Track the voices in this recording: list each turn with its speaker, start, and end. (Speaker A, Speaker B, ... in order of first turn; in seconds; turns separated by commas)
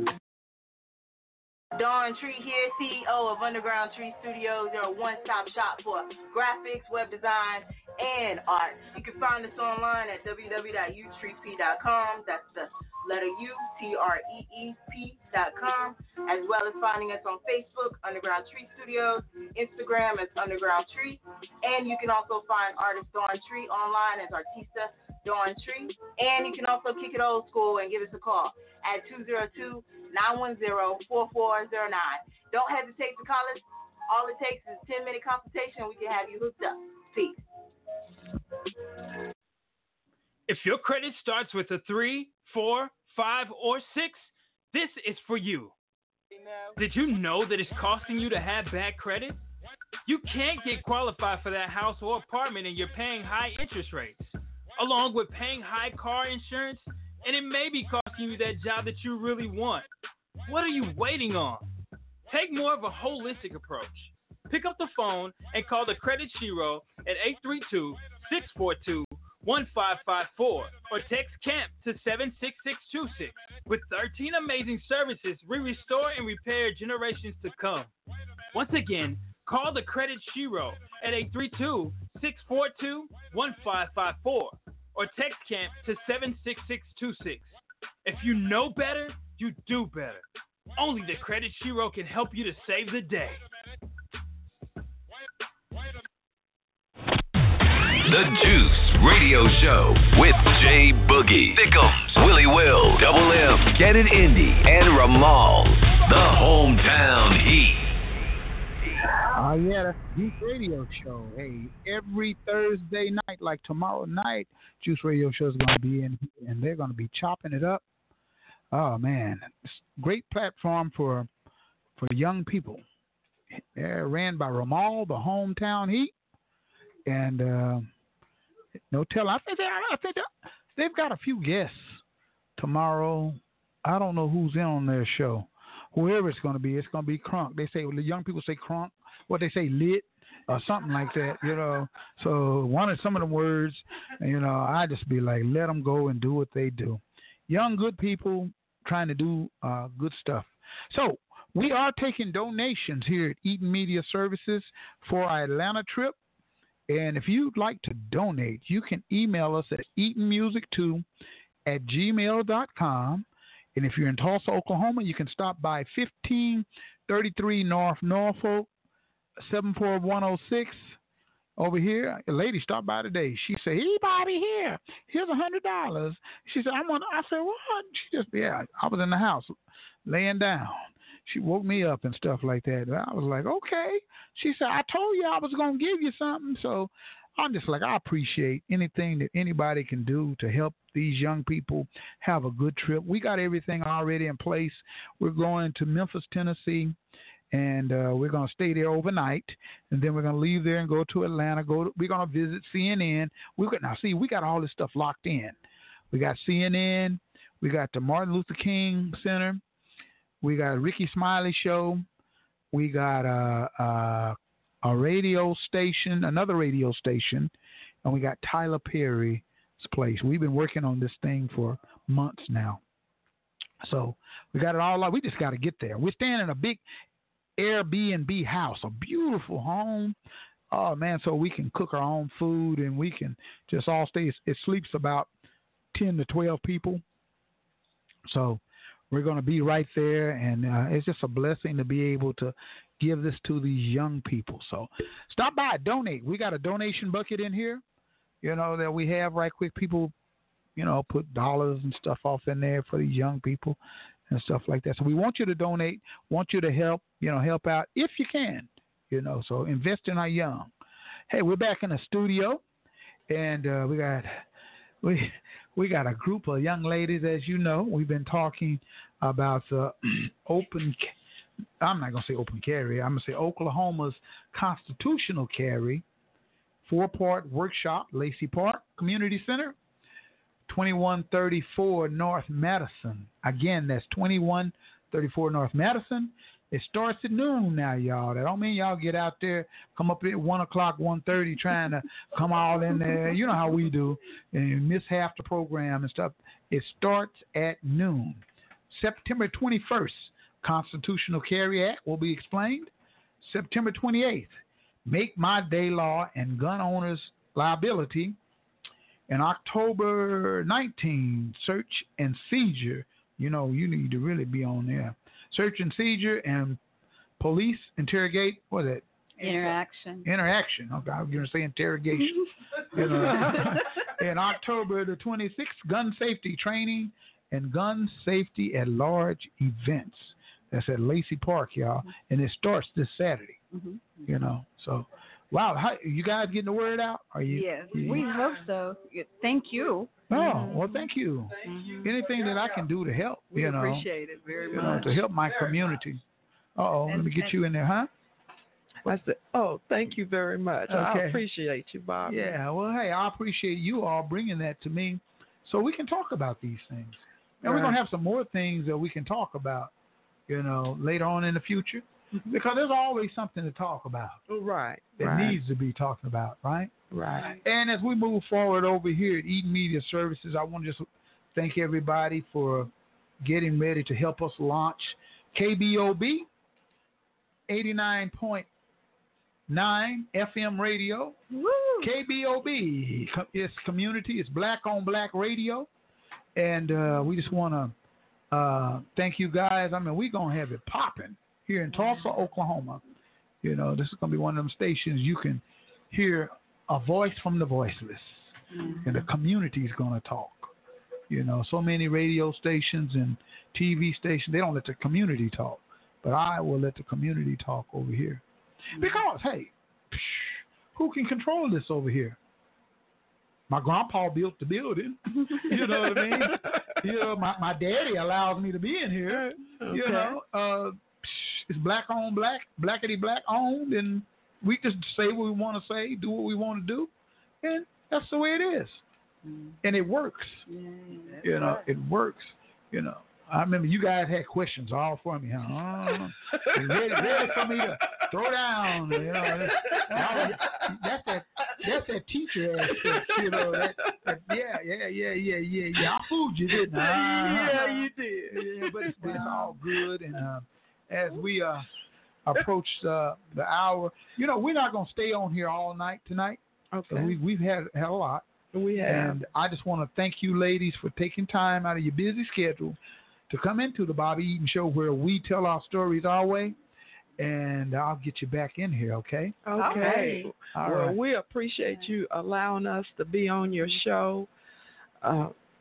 Speaker A: 1.7-37.4, Speaker B: 40.5-45.7, Speaker B: 46.8-49.4, Speaker B: 50.1-59.9, Speaker B: 60.5-61.6, Speaker B: 62.3-77.9, Speaker B: 78.5-87.5, Speaker B: 88.0-90.2, Speaker B: 90.8-93.4, Speaker C: 98.0-107.9, Speaker D: 109.3-117.8, Speaker D: 118.7-121.3, Speaker D: 122.0-122.8, Speaker D: 123.5-126.1, Speaker D: 127.1-127.9, Speaker D: 128.9-132.0, Speaker D: 132.6-156.2, Speaker D: 156.9-161.1, Speaker D: 161.7-168.7, Speaker D: 169.4-171.0, Speaker D: 171.6-179.6, Speaker D: 180.1-197.0, Speaker D: 197.5-205.6, Speaker D: 206.1-209.6, Speaker D: 210.4-212.0, Speaker D: 212.7-217.5, Speaker D: 218.0-222.8, Speaker D: 223.8-226.8, Speaker D: 227.6-230.2, Speaker D: 230.7-235.3, Speaker D: 235.9-237.0, Speaker D: 238.3-247.8, Speaker D: 248.4-250.1, Speaker D: 250.8-260.7, Speaker D: 261.3-262.6, Speaker D: 263.3-264.5, Speaker D: 265.0-271.1, Speaker D: 271.8-276.1, Speaker D: 276.9-279.8, Speaker D: 280.7-308.4, Speaker D: 309.3-316.8, Speaker D: 317.4-319.0, Speaker E: 319.4-320.3, Speaker D: 320.2-333.6, Speaker E: 323.3-323.7, Speaker E: 333.7-334.3, Speaker D: 334.2-338.3, Speaker F: 337.5-338.2, Speaker E: 337.6-341.0, Speaker D: 340.3-344.1, Speaker F: 340.4-340.7, Speaker E: 341.7-342.1, Speaker F: 343.5-345.2, Speaker D: 344.7-346.2, Speaker D: 346.8-348.1, Speaker F: 347.1-347.6, Speaker G: 349.1-352.6, Speaker D: 350.9-351.4, Speaker D: 352.3-359.9, Speaker G: 357.6-358.0, Speaker D: 360.5-364.4, Speaker G: 364.5-365.6, Speaker D: 365.2-366.9, Speaker G: 367.1-367.5, Speaker D: 367.6-372.9, Speaker D: 373.4-376.5, Speaker D: 377.7-378.7, Speaker D: 379.7-381.4, Speaker E: 381.6-382.1, Speaker D: 382.0-385.9, Speaker D: 386.6-387.9, Speaker D: 388.5-393.0, Speaker D: 393.6-400.7, Speaker E: 398.8-399.1, Speaker D: 401.3-408.4, Speaker D: 408.9-412.4, Speaker D: 413.7-427.1, Speaker G: 415.7-416.8, Speaker G: 419.3-420.4, Speaker D: 427.6-429.0, Speaker D: 429.8-430.7, Speaker E: 430.7-431.4, Speaker F: 431.1-431.8, Speaker D: 431.4-447.9, Speaker G: 436.9-437.4, Speaker G: 439.4-440.8, Speaker G: 442.9-444.1, Speaker G: 446.7-449.8, Speaker D: 448.5-451.9, Speaker D: 452.5-458.4, Speaker G: 456.9-457.4, Speaker G: 458.7-459.4, Speaker D: 459.0-463.0, Speaker D: 463.5-466.8, Speaker D: 467.4-471.2, Speaker G: 469.7-474.5, Speaker F: 469.8-470.5, Speaker E: 469.8-470.4, Speaker G: 475.2-475.5